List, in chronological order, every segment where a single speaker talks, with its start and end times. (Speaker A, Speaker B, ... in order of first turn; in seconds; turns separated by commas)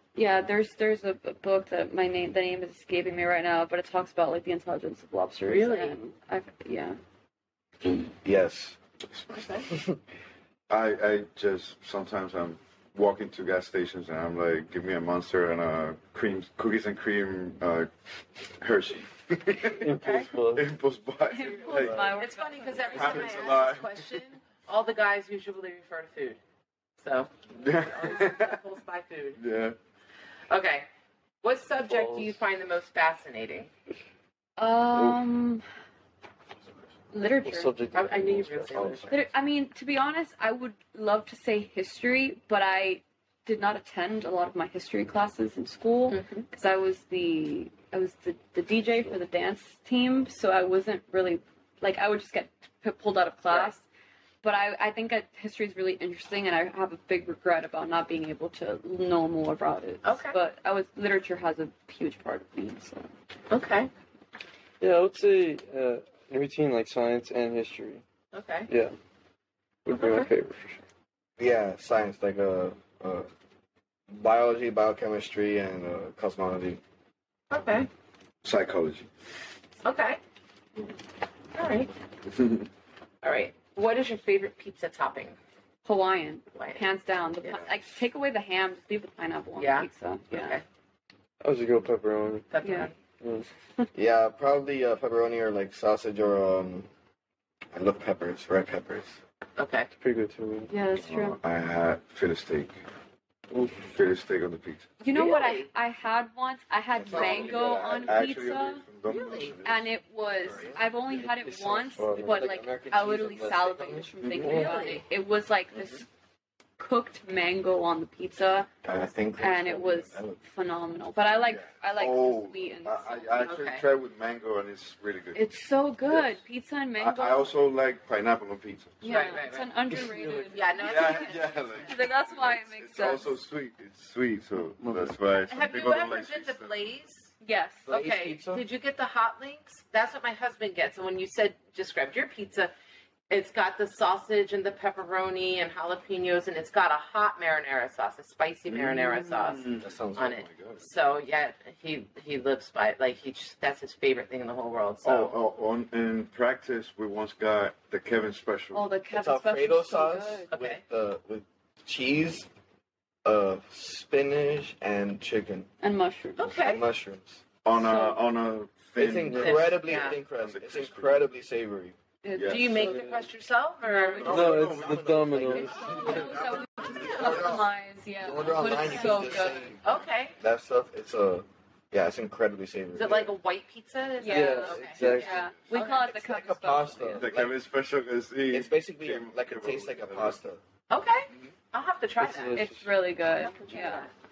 Speaker A: 0.1-7.0, Speaker B: 5.5-6.0, Speaker C: 8.2-8.8, Speaker B: 9.3-9.7, Speaker C: 9.7-10.0, Speaker D: 10.7-17.9, Speaker D: 18.5-19.9, Speaker E: 19.7-20.7, Speaker B: 20.0-20.3, Speaker D: 20.5-22.2, Speaker A: 21.3-23.5, Speaker B: 21.6-26.4, Speaker E: 21.7-22.1, Speaker D: 22.9-24.0, Speaker B: 27.0-29.4, Speaker D: 27.6-28.6, Speaker D: 29.4-29.8, Speaker B: 30.5-30.9, Speaker B: 31.4-33.7, Speaker E: 31.9-32.4, Speaker A: 34.6-35.6, Speaker A: 37.1-37.7, Speaker E: 37.4-39.1, Speaker B: 37.9-39.1, Speaker C: 38.7-39.2, Speaker A: 39.1-53.8, Speaker B: 46.1-46.5, Speaker B: 53.5-53.7, Speaker A: 54.4-63.1, Speaker B: 60.0-60.4, Speaker B: 63.5-63.9, Speaker E: 64.8-68.0, Speaker B: 68.3-68.7, Speaker E: 68.7-69.0, Speaker E: 69.8-70.8, Speaker B: 70.0-70.3, Speaker C: 71.4-73.3, Speaker C: 74.1-76.8, Speaker B: 77.5-77.9, Speaker D: 78.4-79.1, Speaker B: 79.8-80.2, Speaker B: 81.5-81.9, Speaker D: 82.4-82.7, Speaker B: 83.2-85.4, Speaker A: 85.8-90.6, Speaker B: 86.5-86.8, Speaker B: 89.6-90.6, Speaker E: 91.4-92.5, Speaker B: 92.5-93.0, Speaker A: 92.6-92.9, Speaker E: 93.2-93.5, Speaker C: 93.9-96.9, Speaker C: 97.7-99.2, Speaker B: 99.6-99.9, Speaker E: 99.9-100.7, Speaker A: 100.7-101.4, Speaker D: 101.0-102.7, Speaker E: 103.5-103.9, Speaker D: 103.9-104.9, Speaker A: 105.0-108.8, Speaker B: 105.1-105.7, Speaker C: 107.0-108.2, Speaker D: 107.0-109.9, Speaker B: 109.0-109.6, Speaker A: 109.7-116.1, Speaker D: 110.4-110.8, Speaker C: 110.5-110.9, Speaker E: 111.2-112.5, Speaker C: 112.1-114.5, Speaker B: 114.4-115.0, Speaker E: 114.4-114.7, Speaker A: 116.8-118.7, Speaker C: 118.8-120.4, Speaker A: 119.4-123.6, Speaker D: 121.5-125.5, Speaker B: 123.4-123.9, Speaker A: 125.3-127.5, Speaker D: 126.1-126.4, Speaker D: 127.0-129.4, Speaker A: 129.0-131.3, Speaker B: 129.1-129.7, Speaker E: 129.9-130.5, Speaker B: 130.5-131.8, Speaker D: 130.8-136.8, Speaker A: 131.8-133.3, Speaker B: 135.5-137.3, Speaker A: 137.4-137.9, Speaker C: 137.9-138.6, Speaker B: 137.9-142.7, Speaker B: 143.3-155.3, Speaker D: 148.7-150.8, Speaker C: 149.7-150.4, Speaker D: 155.0-158.9, Speaker A: 158.7-160.5, Speaker C: 159.1-162.5, Speaker B: 160.5-160.8, Speaker C: 163.2-165.7, Speaker A: 165.8-166.5, Speaker B: 166.4-166.8, Speaker C: 166.4-167.4, Speaker D: 167.7-171.3, Speaker A: 167.8-168.2, Speaker C: 169.0-171.9, Speaker B: 169.3-170.2, Speaker E: 169.3-169.6, Speaker A: 172.2-173.1, Speaker D: 172.4-172.9, Speaker B: 172.4-174.4, Speaker E: 172.9-173.3, Speaker A: 173.8-174.4, Speaker C: 174.2-179.8, Speaker E: 174.2-175.8, Speaker D: 174.2-175.0, Speaker A: 175.7-179.8, Speaker B: 176.9-177.3, Speaker B: 179.8-180.4, Speaker C: 180.4-183.3, Speaker B: 182.9-186.0, Speaker A: 184.2-187.3, Speaker E: 184.3-185.5, Speaker C: 185.8-187.6, Speaker D: 187.2-190.4, Speaker C: 188.5-190.6, Speaker B: 190.9-192.7, Speaker E: 192.2-192.9, Speaker A: 192.5-194.1, Speaker B: 193.3-194.1